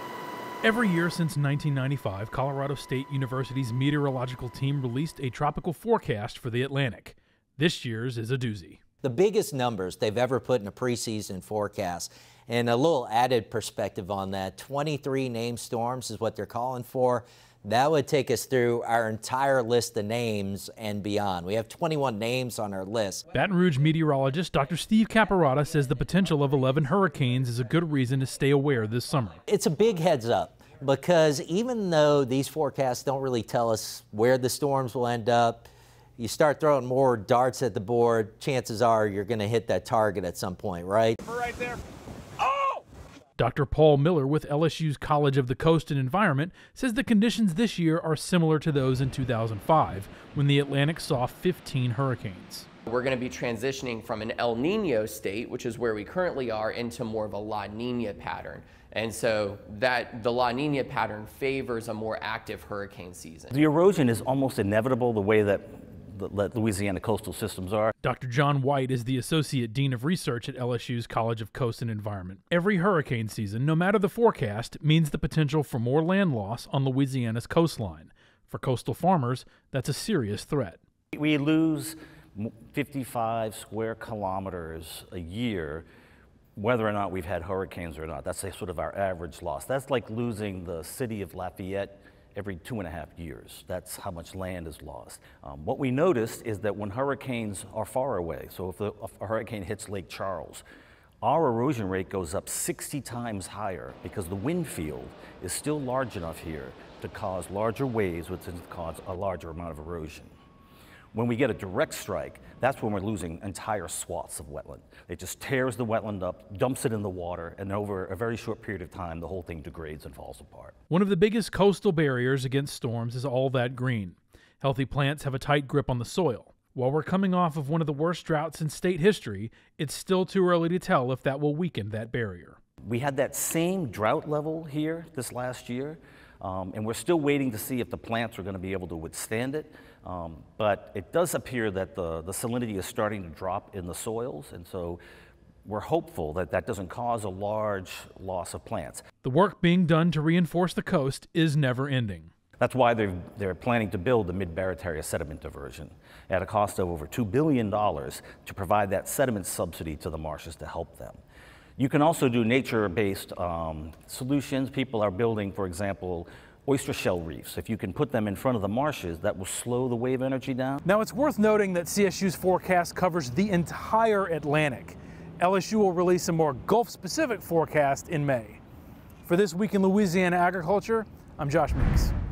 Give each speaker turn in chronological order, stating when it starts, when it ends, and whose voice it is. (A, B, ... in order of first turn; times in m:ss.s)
0:00.6-0:08.8 A
0:09.0-0:23.2 B
0:23.3-0:29.4 A
0:29.5-0:41.2 B
0:43.4-0:52.7 A
0:52.9-1:03.5 C
1:03.5-1:07.9 D
1:08.0-1:20.8 A
1:21.1-1:25.8 D
1:26.6-1:40.6 D
1:41.2-1:50.3 D
1:51.1-2:00.8 D
2:00.9-2:12.6 A
2:12.8-2:25.0 D
2:25.6-2:29.1 D
2:29.2-2:32.3 A
2:32.6-2:41.2 D
2:41.8-2:50.8 D
2:50.8-2:58.6 A
2:59.2-3:02.1 A